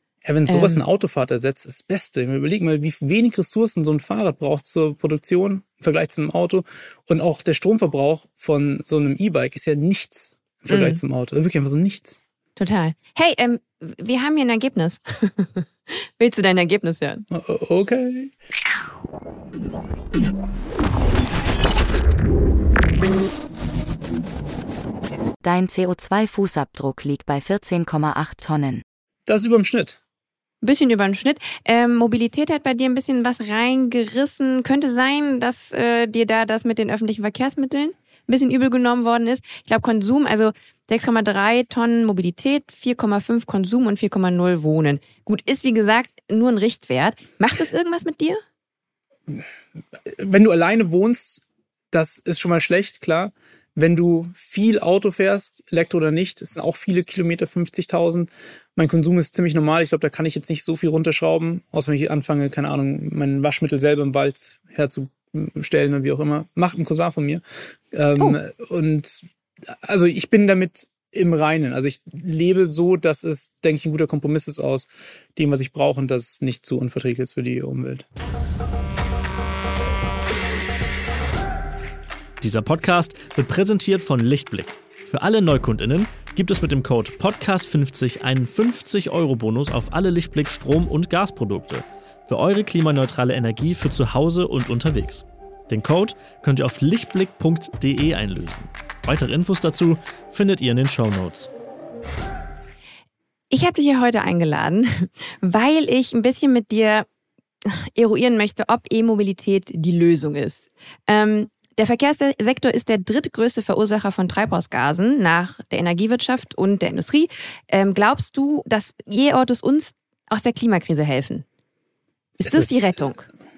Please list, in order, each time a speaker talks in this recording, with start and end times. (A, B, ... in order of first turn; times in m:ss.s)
0:00.2-0:12.2 A
0:00.5-0:00.8 B
0:10.7-0:11.0 B
0:12.6-0:17.2 B
0:17.3-0:18.3 A
0:25.4-0:28.8 C
0:29.3-0:30.0 A
0:30.6-0:48.4 B
0:50.0-1:18.0 A
1:22.4-1:41.5 D
1:43.5-1:47.0 B
1:47.6-2:01.4 B
2:02.4-2:03.3 B
2:02.4-2:03.0 A